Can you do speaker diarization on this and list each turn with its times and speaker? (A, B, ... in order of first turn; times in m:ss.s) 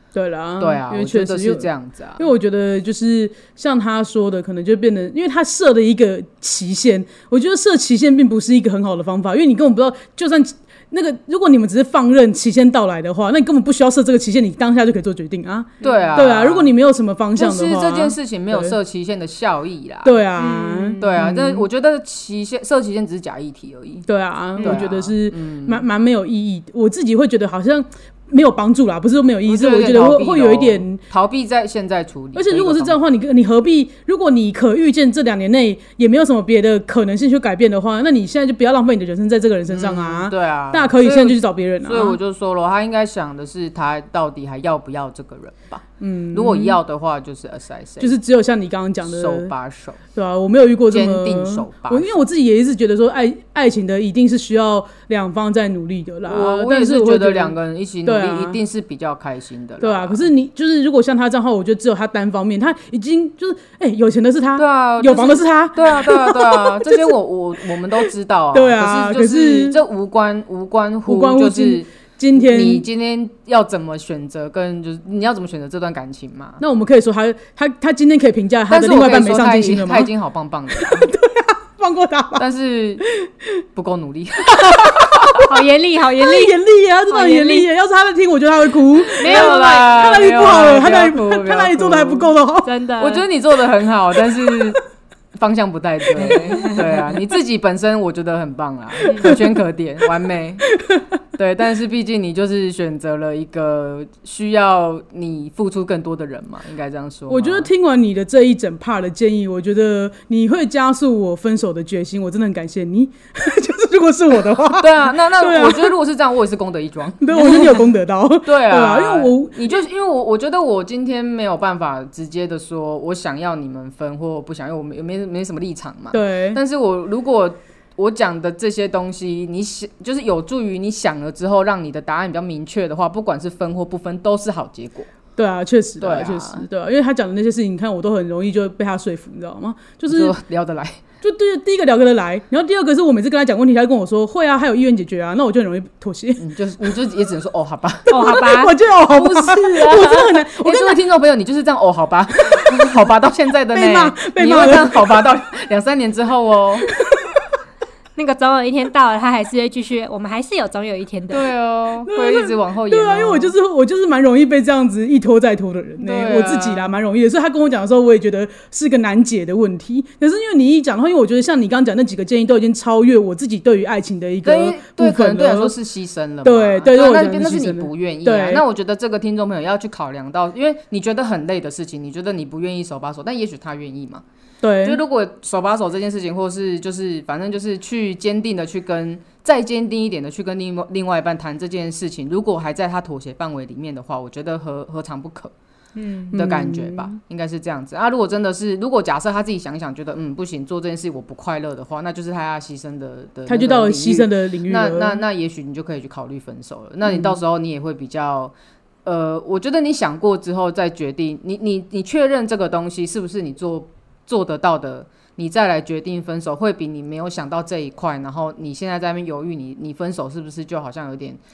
0:00.1-0:18.8 A
0:00.6-0:02.2 B
0:15.8-0:16.1 C
0:15.8-0:16.7 B
0:17.4-0:20.2 B
0:20.0-0:21.7 A
0:20.4-0:21.1 C
0:21.0-0:24.1 B
0:24.1-0:31.0 A
0:24.6-0:25.8 B
0:29.5-0:33.0 B
0:32.4-0:42.2 A
0:39.7-0:48.2 B
0:46.0-0:46.8 A
0:48.0-0:49.5 A
0:49.0-0:50.0 B
0:50.1-0:58.6 A
0:50.9-0:52.2 B
0:56.2-1:00.3 B
0:59.8-1:07.2 A
1:04.6-1:16.6 B
1:08.0-1:09.8 A
1:11.1-1:12.8 A
1:16.6-1:20.1 A
1:18.7-1:21.1 B
1:20.7-1:22.4 A
1:22.4-1:23.1 B
1:23.0-1:23.5 A
1:23.8-1:25.5 B
1:24.8-1:25.2 A
1:25.4-1:26.6 C
1:26.2-1:32.7 A
1:27.1-1:27.7 C
1:29.2-1:30.5 C
1:29.2-1:32.3 B
1:32.6-1:33.2 C
1:33.0-1:34.8 B
1:34.3-1:34.8 A
1:35.4-1:40.7 B
1:36.1-1:37.0 A
1:36.3-1:36.7 C
1:39.0-1:39.4 C
1:39.1-1:39.4 A
1:40.7-1:41.2 A
1:41.4-1:47.7 B
1:47.3-1:56.0 A
1:54.8-1:57.7 B
1:57.2-1:59.8 A
1:58.4-2:15.1 B
2:06.1-2:06.6 A
2:15.4-2:20.4 A
2:16.0-2:16.7 B
2:20.1-2:21.0 B
2:21.2-2:26.4 A
2:26.4-2:28.4 B
2:28.1-2:28.8 C
2:28.1-2:31.0 A
2:29.1-2:36.9 B
2:33.7-2:35.0 A
2:38.2-2:41.5 C
2:41.3-2:43.5 B
2:42.1-2:55.7 A
2:46.0-2:47.0 B
2:54.4-3:04.2 B
2:56.4-2:58.6 A
3:04.6-3:05.0 A
3:04.8-3:15.5 B
3:16.0-3:17.1 A
3:16.3-3:28.5 B
3:23.5-3:25.2 A
3:27.1-3:27.4 A
3:29.0-3:41.4 B